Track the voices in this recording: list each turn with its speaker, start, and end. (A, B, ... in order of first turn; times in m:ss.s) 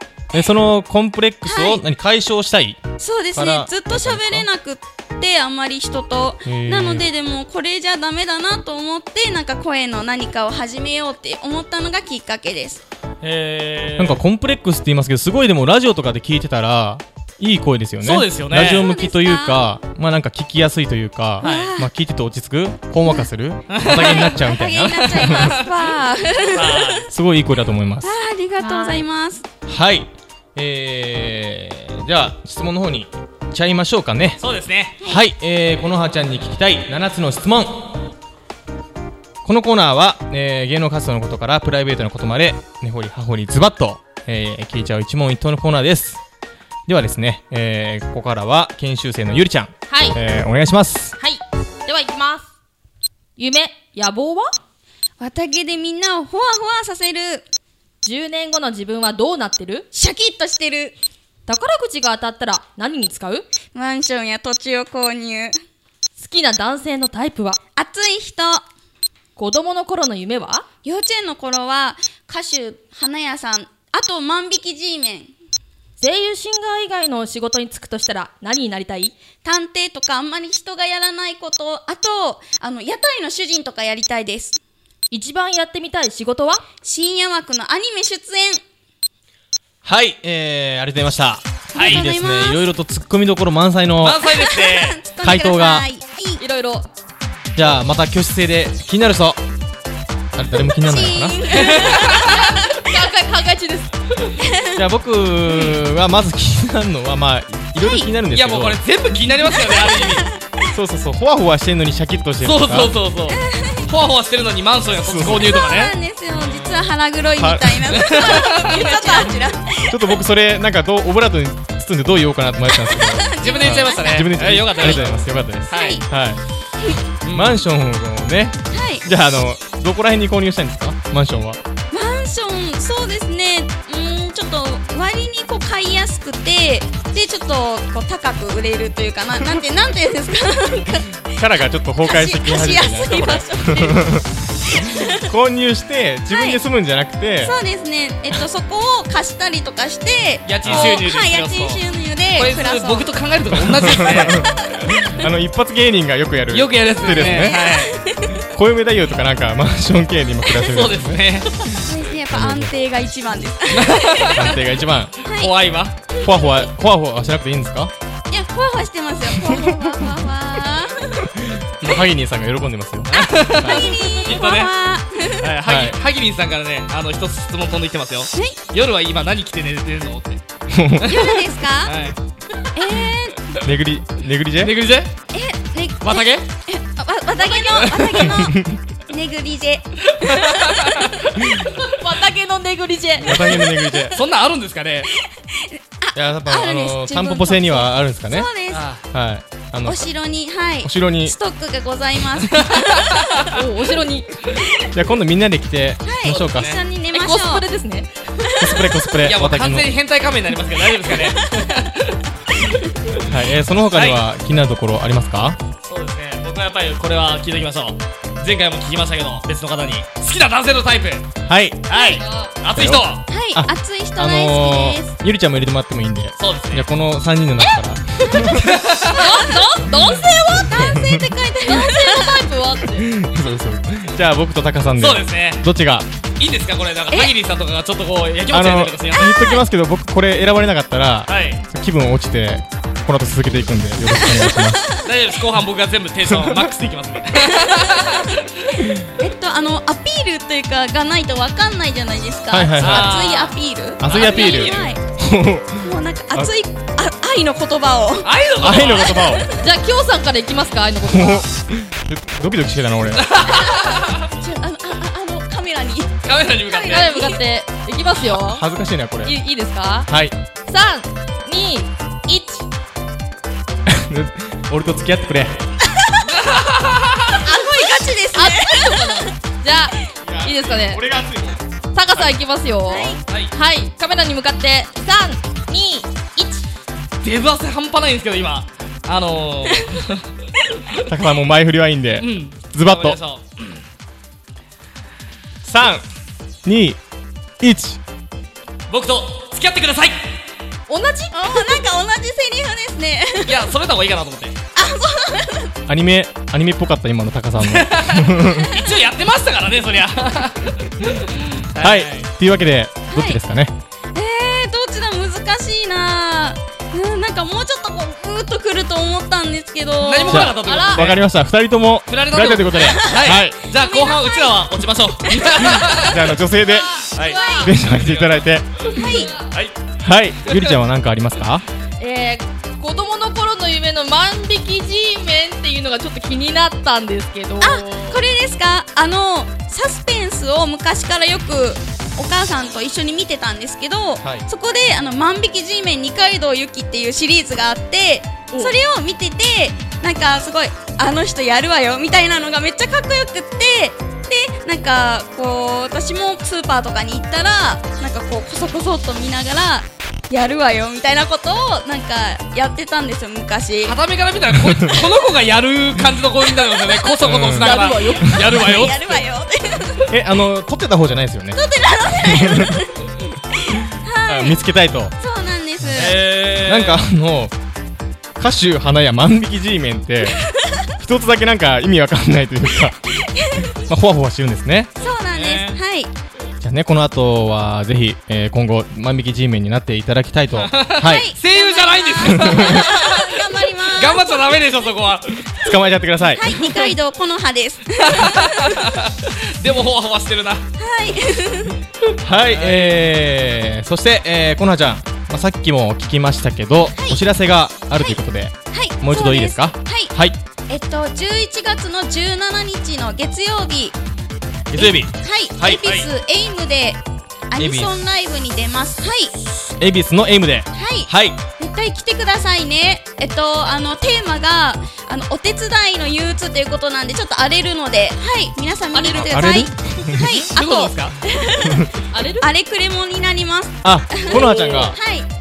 0:00.3-0:02.8 A
0:01.5-0:01.8 B
0:03.0-0:12.8 B
0:03.3-0:04.5 A
0:06.4-0:07.1 A
0:13.2-0:14.2 C
0:14.0-0:25.6 A
0:18.0-0:18.9 C
0:18.5-0:19.6 B
0:21.4-0:21.8 C
0:21.4-0:21.9 B
0:23.7-0:24.4 C
0:23.9-0:27.1 B
0:25.2-0:25.8 C
0:26.5-0:27.1 C
0:27.1-0:28.1 A
0:28.0-0:29.4 B
0:28.6-0:29.0 D
0:29.7-0:34.4 A
0:34.4-0:35.0 C
0:35.0-0:38.0 A
0:39.4-0:46.2 A
0:46.9-0:51.2 A
0:49.9-0:50.2 D
0:51.2-0:52.5 D
0:53.4-0:54.6 D
0:55.2-0:57.4 B
0:58.0-0:59.9 D
0:59.9-1:01.0 B
1:01.5-1:03.5 D
1:03.7-1:05.6 B
1:06.2-1:07.6 D
1:07.8-1:08.6 B
1:09.4-1:10.7 D
1:10.8-1:15.3 B
1:16.0-1:19.2 D
1:19.4-1:24.6 B
1:25.1-1:26.6 D
1:26.8-1:28.6 B
1:29.8-1:34.2 A
1:31.7-1:32.6 B
1:31.8-1:32.0 C
1:34.0-1:35.0 C
1:34.3-1:36.4 B
1:35.2-1:35.9 A
1:36.4-1:36.9 D
1:37.6-1:39.4 A
1:40.4-1:41.4 A
1:40.8-1:42.9 B
1:41.5-1:43.9 D
1:41.7-1:42.0 C
1:44.4-1:44.8 B
1:44.8-1:48.8 A
1:47.8-1:48.1 B
1:48.3-1:50.3 C
1:49.5-1:50.7 B
1:50.7-1:53.0 A
1:52.4-1:56.8 C
1:53.3-1:53.9 B
1:55.0-1:55.6 A
1:55.2-2:00.0 B
1:57.4-1:58.1 A
1:57.9-1:59.3 C
1:58.8-1:59.2 D
1:59.9-2:06.4 A
2:02.8-2:05.0 B
2:03.4-2:06.0 C
2:05.7-2:06.0 B
2:07.2-2:07.6 C
2:07.3-2:11.6 A
2:08.7-2:09.0 B
2:11.9-2:21.2 B
2:21.4-2:24.3 A
2:22.0-2:24.1 B
2:24.7-2:25.3 B
2:24.8-2:27.6 A
2:26.3-2:26.6 B
2:27.4-2:33.1 B
2:30.5-2:31.8 C
2:30.6-2:31.0 A
2:32.4-2:34.5 C
2:33.7-2:34.5 A
2:34.3-2:35.2 B
2:35.0-2:37.6 A
2:36.5-2:38.0 C
2:37.0-2:38.4 B
2:38.4-2:41.2 A
2:40.6-2:41.7 C
2:41.7-2:44.6 B
2:42.3-2:42.7 A
2:43.7-2:44.6 C
2:44.3-2:45.2 A
2:45.2-2:45.5 B
2:45.3-2:46.0 C
2:46.2-2:46.6 B
2:46.2-2:47.9 A
2:48.3-2:51.3 B
2:49.3-2:49.8 A
2:51.4-2:54.0 A
2:53.1-2:54.7 C
2:53.1-2:55.6 B
2:55.4-3:00.4 C
2:55.6-2:56.0 A
3:00.7-3:01.2 A
3:01.0-3:02.2 C
3:01.0-3:02.0 B
3:02.8-3:03.6 B
3:03.6-3:04.8 A
3:04.6-3:05.1 C
3:05.3-3:11.3 B
3:06.0-3:06.5 C
3:07.4-3:07.9 D
3:07.4-3:08.2 C
3:08.0-3:08.8 A
3:10.1-3:11.2 C
3:11.6-3:13.6 D
3:13.2-3:14.2 A
3:14.1-3:15.1 C
3:15.2-3:18.9 B
3:16.1-3:18.5 A
3:18.7-3:19.0 C
3:19.1-3:20.1 A
3:19.8-3:23.6 B
3:20.8-3:21.4 A
3:22.5-3:23.4 C
3:23.4-3:24.3 D
3:24.9-3:26.8 A
3:26.0-3:27.6 B
3:26.4-3:26.8 C
3:27.1-3:28.1 D
3:28.4-3:29.0 B
3:28.6-3:29.9 A
3:29.2-3:32.2 C
3:31.2-3:31.6 B
3:33.2-3:35.6 A
3:33.9-3:34.2 C
3:35.8-3:41.3 C
3:41.5-3:41.9 A
3:41.9-3:43.2 C
3:41.9-3:42.2 B
3:42.1-3:42.5 D
3:42.7-3:48.8 A
3:43.3-3:45.1 B
3:46.4-3:46.9 C
3:48.3-3:49.9 B
3:48.6-3:49.2 C
3:49.1-3:51.0 D
3:50.5-3:52.5 B
3:50.8-3:51.3 A
3:51.6-3:53.1 D
3:53.0-3:56.1 A
3:55.0-3:55.6 C
3:56.4-3:59.6 C
3:58.5-4:04.9 A
4:01.3-4:01.6 C
4:04.2-4:05.1 B
4:05.0-4:08.8 C
4:06.3-4:06.8 A
4:07.4-4:08.3 B
4:09.2-4:15.0 B
4:12.5-4:13.3 A
4:12.8-4:14.9 C
4:14.0-4:16.5 A
4:15.8-4:19.7 B
4:18.2-4:19.4 C
4:18.6-4:19.5 A
4:19.5-4:21.5 D
4:21.1-4:23.3 A
4:23.2-4:24.3 C
4:23.5-4:27.4 B
4:26.2-4:27.2 C
4:26.9-4:28.6 D
4:28.2-4:29.4 A
4:29.2-4:30.1 D
4:30.1-4:30.4 A
4:30.7-4:32.7 D
4:33.9-4:35.6 A
4:36.2-4:37.4 C
4:37.3-4:39.3 B
4:37.5-4:41.0 D
4:40.2-4:41.6 A
4:41.9-4:46.7 D
4:42.9-4:43.2 B
4:43.3-4:43.5 C
4:47.2-4:50.3 C
4:51.0-4:53.2 A
4:52.2-4:53.8 C
4:55.6-4:56.0 A
4:56.6-4:57.0 A
4:57.6-4:58.0 A
4:58.9-5:00.3 C
5:00.9-5:01.8 D
5:01.3-5:03.7 B
5:03.5-5:04.6 C
5:04.8-5:05.7 B
5:05.9-5:08.8 A
5:07.6-5:12.3 C
5:11.8-5:13.7 A
5:13.1-5:13.4 B
5:14.1-5:20.6 B
5:20.0-5:21.2 C
5:20.3-5:23.6 A
5:20.6-5:21.1 D
5:22.1-5:26.3 C
5:23.1-5:24.6 B
5:25.2-5:26.1 B
5:26.0-5:27.1 A
5:26.7-5:27.7 D
5:27.2-5:29.7 C
5:27.2-5:27.7 B
5:27.6-5:28.8 A
5:28.9-5:29.3 B
5:29.0-5:29.5 D
5:30.0-5:31.6 A
5:32.0-5:38.2 D
5:37.6-6:04.0 B
6:03.8-6:09.2 C
6:04.5-6:05.1 A
6:06.7-6:07.2 B
6:07.2-6:07.8 A
6:07.6-6:08.4 D
6:08.4-6:10.1 B
6:10.1-6:11.6 A
6:11.6-6:12.9 B
6:12.2-6:12.8 A
6:13.6-6:14.6 B
6:14.3-6:15.1 A
6:15.2-6:16.2 B
6:15.8-6:17.5 A
6:15.9-6:17.0 C
6:18.4-6:23.1 A
6:20.4-6:20.8 B
6:23.2-6:23.7 B
6:23.7-6:24.9 A
6:25.0-6:25.8 C
6:25.0-6:26.1 B
6:26.6-6:31.3 A
6:30.6-6:35.7 C
6:31.0-6:34.6 B
6:32.2-6:32.9 A
6:35.6-6:36.6 A
6:36.3-6:38.9 B
6:36.6-6:36.9 C
6:38.0-6:40.7 C
6:40.8-6:41.8 B
6:42.2-6:50.4 A
6:42.3-6:43.1 C
6:46.9-6:47.2 B
6:48.7-6:50.2 B
6:50.7-6:54.0 B
6:54.7-6:55.8 A
6:54.8-6:59.4 B
6:55.8-6:56.1 C
6:57.6-6:57.9 A
6:59.8-7:01.4 A
7:00.8-7:15.3 B
7:08.9-7:09.7 D
7:09.2-7:10.4 A
7:10.3-7:11.2 C
7:11.6-7:11.9 A
7:12.1-7:12.5 D
7:13.8-7:15.0 A